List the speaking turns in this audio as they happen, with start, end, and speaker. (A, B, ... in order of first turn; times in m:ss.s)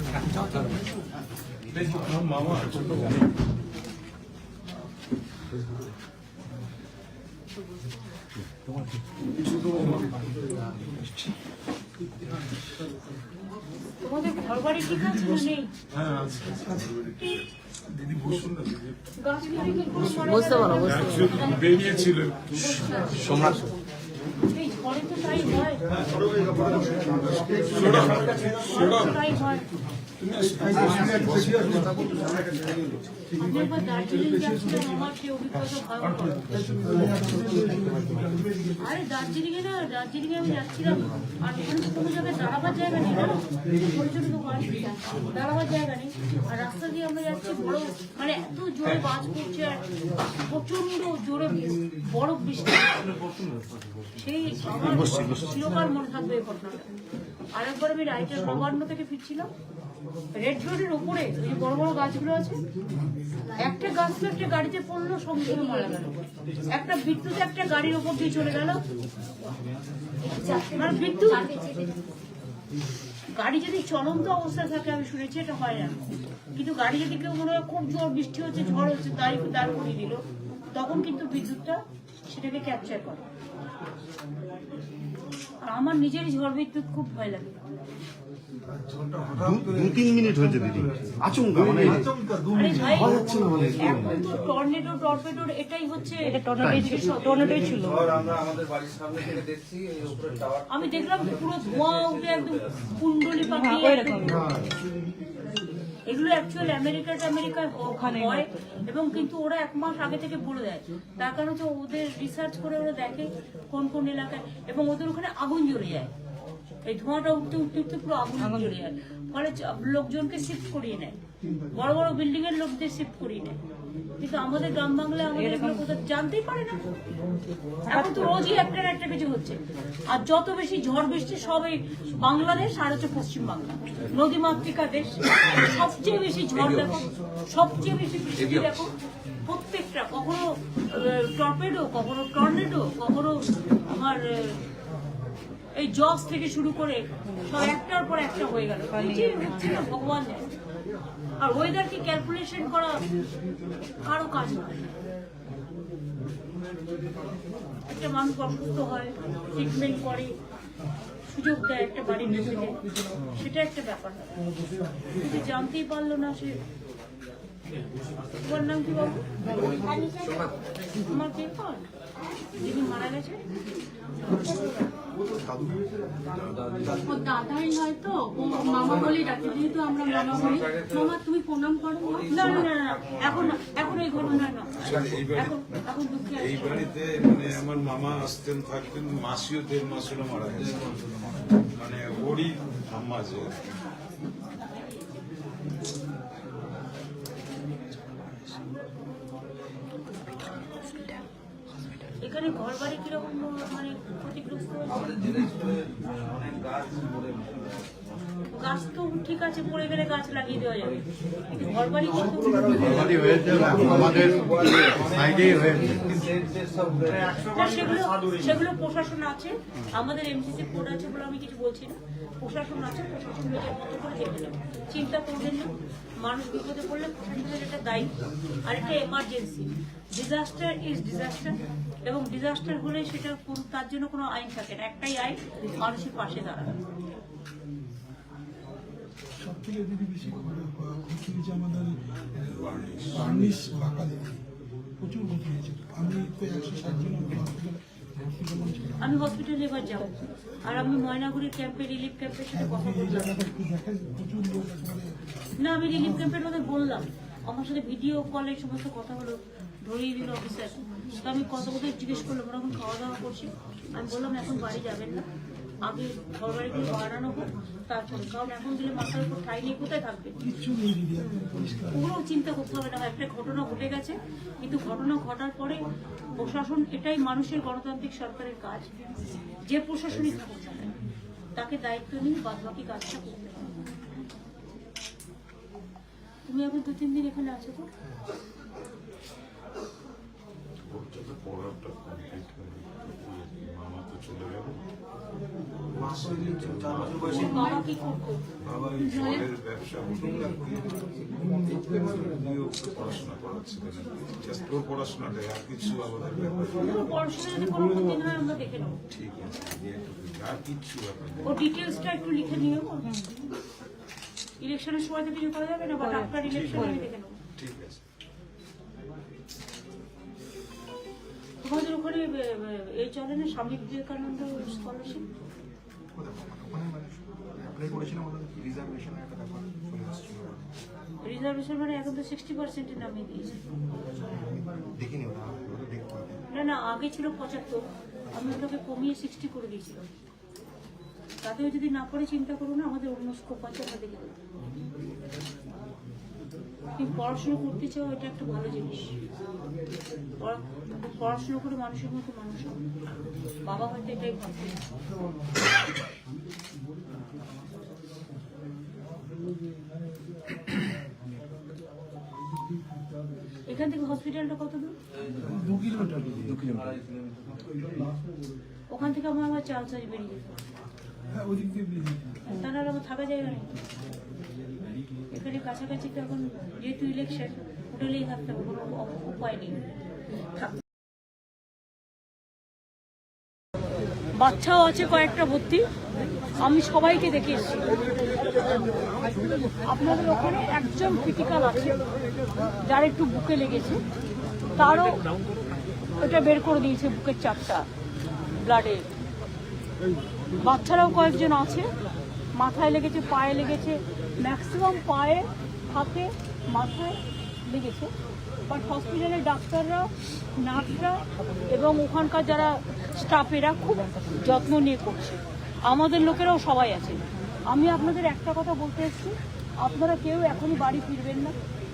0:01.7-0:03.2 A
0:09.7-0:10.0 A
0:14.0-0:15.7 B
0:15.9-0:19.0 A
0:19.2-0:21.5 B
0:19.6-0:21.5 C
0:20.7-0:23.6 A
0:22.6-0:23.1 B
0:23.2-0:23.7 D
0:24.5-0:25.8 B
0:26.6-0:29.4 A
0:27.8-0:28.5 D
0:28.6-0:29.6 B
0:30.3-0:31.8 E
0:30.3-0:32.0 A
0:30.9-0:32.9 D
0:33.4-0:36.5 B
0:33.5-0:34.3 E
0:36.5-0:38.9 E
0:38.8-0:49.8 B
0:50.5-0:52.9 B
0:54.2-0:56.8 B
0:54.8-0:55.3 A
0:57.5-0:59.5 B
1:00.4-1:02.6 B
1:03.6-1:06.1 B
1:05.5-1:06.0 C
1:06.7-1:08.8 B
1:10.2-1:12.0 C
1:10.8-1:11.4 B
1:13.4-1:16.0 B
1:16.6-1:23.2 B
1:25.6-1:27.6 B
1:28.7-1:34.5 D
1:32.5-1:37.6 B
1:36.3-1:38.1 C
1:37.2-1:42.8 D
1:40.7-1:44.4 B
1:43.4-1:44.4 C
1:46.1-1:56.1 B
1:48.0-1:48.4 C
1:56.8-2:01.2 B
2:01.7-2:03.6 B
2:04.2-2:06.9 B
2:05.4-2:05.8 C
2:07.9-2:09.6 B
2:07.9-2:08.3 C
2:10.1-2:18.9 B
2:16.6-2:17.0 A
2:18.4-2:18.9 A
2:19.5-2:24.2 B
2:25.8-2:30.5 B
2:31.4-2:33.0 B
2:34.0-2:34.9 B
2:37.9-2:40.4 B
2:41.3-2:44.3 B
2:45.2-2:46.6 B
2:48.4-2:49.3 B
2:49.4-2:50.5 D
2:49.8-2:50.1 C
2:51.1-2:51.8 B
2:52.6-2:53.4 B
2:55.3-2:55.8 D
2:56.3-2:57.3 D
2:57.0-3:02.7 C
2:58.4-3:01.2 D
3:02.0-3:03.6 D
3:02.3-3:04.7 B
3:03.2-3:04.0 A
3:04.7-3:05.8 A
3:04.8-3:05.2 D
3:05.3-3:06.9 B
3:06.4-3:11.0 A
3:10.5-3:11.3 D
3:11.8-3:13.6 A
3:22.2-3:25.0 B
3:24.9-3:27.8 D
3:25.2-3:25.7 E
3:28.5-3:31.0 B
3:31.5-3:33.3 B
3:32.0-3:37.6 D
3:37.5-3:48.1 B
3:48.6-3:56.8 B
3:59.4-4:02.0 E
4:02.4-4:03.6 A
4:03.1-4:04.4 E
4:05.0-4:09.2 E
4:09.0-4:13.4 B
4:12.5-4:15.2 E
4:15.6-4:25.2 B
4:15.9-4:16.2 E
4:25.8-4:30.3 B
4:30.4-4:32.1 E
4:31.9-4:35.8 B
4:36.4-4:38.9 B
4:39.6-4:40.9 B
4:41.6-4:43.8 B
4:46.4-4:47.9 B
4:50.9-4:54.8 A
4:55.9-4:57.8 A
4:56.0-4:57.6 D
4:57.3-4:58.4 B
4:57.5-4:57.8 C
4:58.6-5:01.0 A
4:58.7-4:59.0 D
4:59.0-4:59.4 C
5:01.7-5:07.0 A
5:06.8-5:09.0 B
5:09.1-5:11.7 A
5:11.4-5:13.0 B
5:14.6-5:17.4 B
5:16.0-5:17.0 C
5:16.4-5:16.9 A
5:17.6-5:18.0 A
5:21.6-5:25.3 B
5:31.2-5:33.6 B
5:36.5-5:40.0 B
5:41.4-5:44.3 B
5:47.0-5:49.1 B
5:50.4-5:52.8 B
5:53.6-5:54.8 B
6:03.7-6:05.0 B
6:05.4-6:06.8 E
6:06.5-6:07.6 D
6:08.9-6:10.5 B
6:11.3-6:12.4 E
6:12.5-6:13.7 B
6:15.3-6:19.8 B
6:24.4-6:25.8 B
6:26.6-6:27.9 B
6:28.5-6:28.7 B
6:29.9-6:32.0 B
6:32.8-6:34.0 B
6:34.8-6:35.2 B
6:36.2-6:37.8 B
6:38.6-6:39.1 B
6:40.6-6:41.9 B
6:42.6-6:48.1 B
6:48.7-6:51.2 B
6:51.7-7:01.5 B